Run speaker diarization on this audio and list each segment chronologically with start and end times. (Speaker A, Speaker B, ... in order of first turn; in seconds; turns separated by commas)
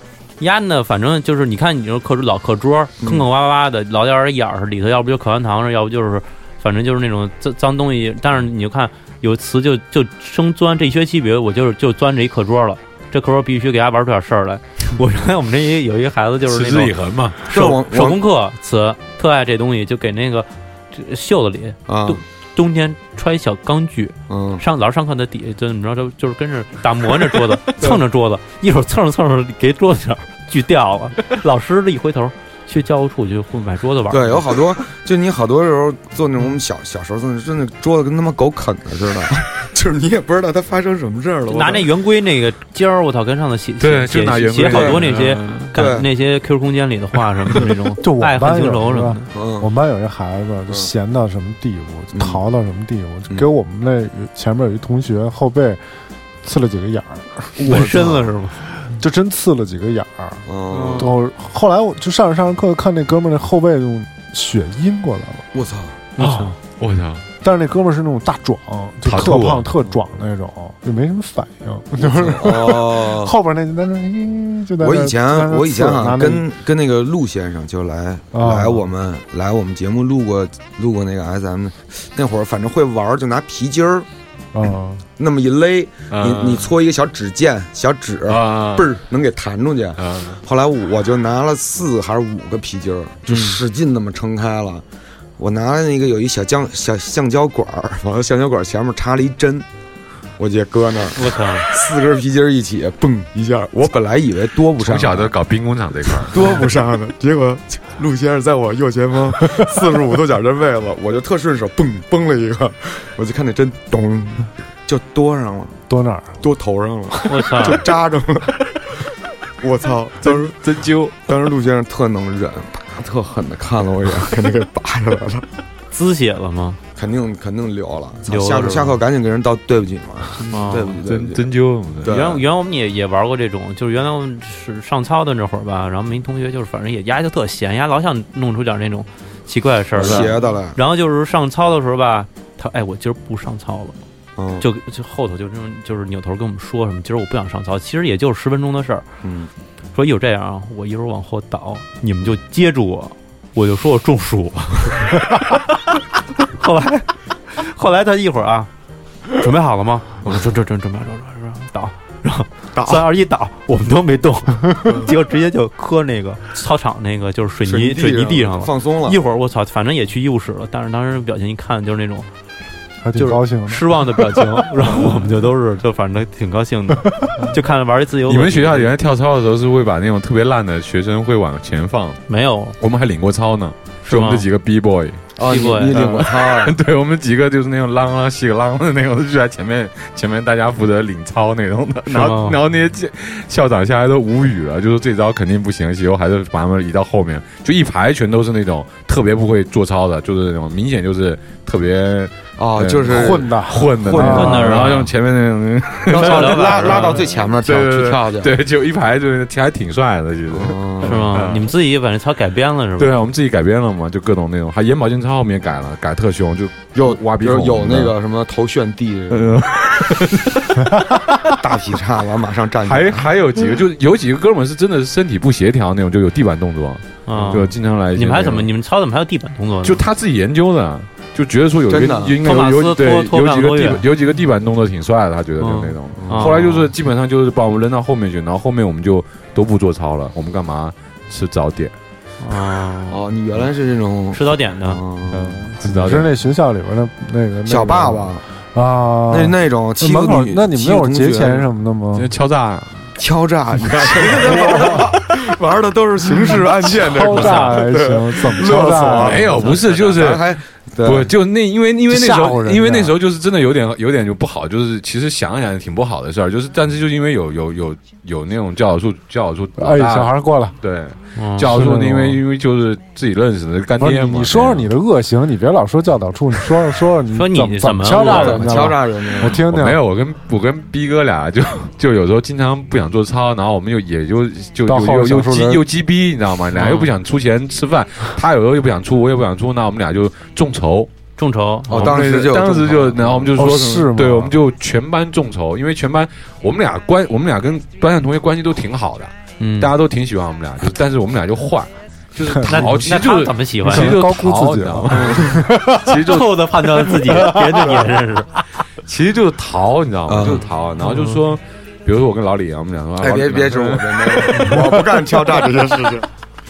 Speaker A: 0.4-34.5, Speaker B: 3.0-3.3, Speaker C: 16.4-17.4, Speaker B: 17.5-18.2, Speaker B: 21.9-22.2, Speaker B: 24.3-24.6, Speaker B: 34.1-41.9, Speaker A: 41.5-49.3, Speaker C: 43.8-45.7, Speaker B: 44.6-45.1, Speaker B: 45.7-46.1, Speaker D: 48.0-55.8, Speaker B: 49.3-49.7, Speaker B: 52.1-52.4, Speaker D: 56.4-58.1, Speaker A: 57.6-58.6, Speaker B: 57.7-58.2, Speaker D: 58.9-65.5, Speaker B: 60.5-61.1, Speaker A: 60.7-61.1, Speaker B: 65.5-66.0, Speaker A: 66.2-66.5, Speaker D: 66.2-66.5, Speaker C: 66.8-67.2, Speaker D: 67.4-76.4, Speaker C: 69.0-69.7, Speaker B: 72.0-73.3, Speaker B: 74.8-84.1, Speaker D: 78.3-78.8, Speaker D: 84.5-85.0, Speaker B: 85.2-94.8, Speaker C: 86.1-86.7, Speaker C: 88.2-88.9, Speaker C: 90.0-90.4, Speaker A: 93.3-93.6, Speaker B: 95.4-99.7, Speaker B: 100.4-105.3, Speaker A: 101.1-101.7, Speaker C: 104.8-106.5, Speaker B: 106.2-115.8, Speaker D: 115.9-116.4, Speaker B: 116.4-118.6, Speaker A: 117.2-117.8, Speaker B: 119.6-120.6, Speaker C: 120.2-121.1, Speaker B: 121.2-125.5, Speaker A: 125.9-126.8, Speaker B: 127.0-131.4, Speaker A: 128.3-129.0, Speaker A: 130.5-131.0, Speaker C: 130.5-132.1, Speaker B: 132.0-132.4, Speaker A: 132.0-143.9, Speaker B: 139.9-140.8, Speaker C: 140.0-140.4, Speaker B: 144.4-144.7, Speaker A: 144.6-149.1, Speaker B: 149.2-149.5, Speaker A: 149.9-155.6, Speaker A: 156.4-158.7, Speaker A: 159.3-172.3, Speaker B: 162.7-163.1, Speaker B: 167.6-169.2, Speaker D: 173.0-173.8, Speaker A: 173.1-178.9, Speaker C: 178.3-182.2, Speaker A: 182.3-182.8, Speaker C: 182.8-185.3, Speaker A: 184.0-184.4, Speaker B: 185.4-186.7, Speaker A: 185.4-186.1, Speaker C: 185.9-211.7, Speaker A: 192.1-192.6, Speaker B: 202.6-204.9, Speaker D: 203.1-204.8, Speaker A: 204.2-205.1, Speaker B: 206.1-208.5, Speaker A: 206.1-207.2, Speaker B: 210.5-211.3, Speaker A: 211.0-213.1, Speaker C: 213.0-218.1, Speaker B: 216.9-219.6, Speaker C: 219.3-221.4, Speaker B: 221.5-223.3, Speaker C: 222.8-228.7, Speaker A: 227.2-230.0, Speaker C: 229.8-241.9, Speaker B: 231.9-232.4, Speaker A: 232.4-234.0, Speaker A: 235.6-236.9, Speaker B: 236.1-236.5, Speaker A: 242.4-243.2, Speaker B: 243.1-245.7, Speaker A: 244.3-245.0, Speaker C: 245.3-246.3, Speaker D: 245.8-252.3, Speaker B: 247.7-248.4, Speaker B: 249.3-251.7, Speaker C: 252.1-253.0, Speaker B: 253.2-261.3, Speaker C: 253.8-255.1, Speaker D: 256.5-259.5, Speaker C: 257.3-257.7, Speaker C: 259.1-274.9, Speaker D: 262.1-263.1, Speaker D: 269.8-270.8, Speaker A: 271.4-271.7, Speaker D: 271.6-272.4, Speaker D: 274.0-280.0, Speaker A: 277.3-278.8, Speaker B: 278.1-279.6, Speaker C: 279.4-291.1, Speaker D: 284.9-285.8, Speaker A: 286.8-287.1, Speaker A: 291.4-292.2, Speaker B: 291.9-293.5, Speaker C: 291.9-306.6, Speaker D: 293.5-294.5, Speaker A: 299.6-299.9, Speaker D: 302.5-302.9, Speaker A: 302.7-304.1, Speaker D: 303.8-306.2, Speaker A: 305.1-305.4, Speaker B: 305.2-305.6, Speaker A: 306.2-308.5, Speaker D: 307.2-307.9, Speaker C: 309.0-314.8, Speaker B: 310.3-310.6, Speaker A: 310.5-311.4, Speaker B: 313.2-316.3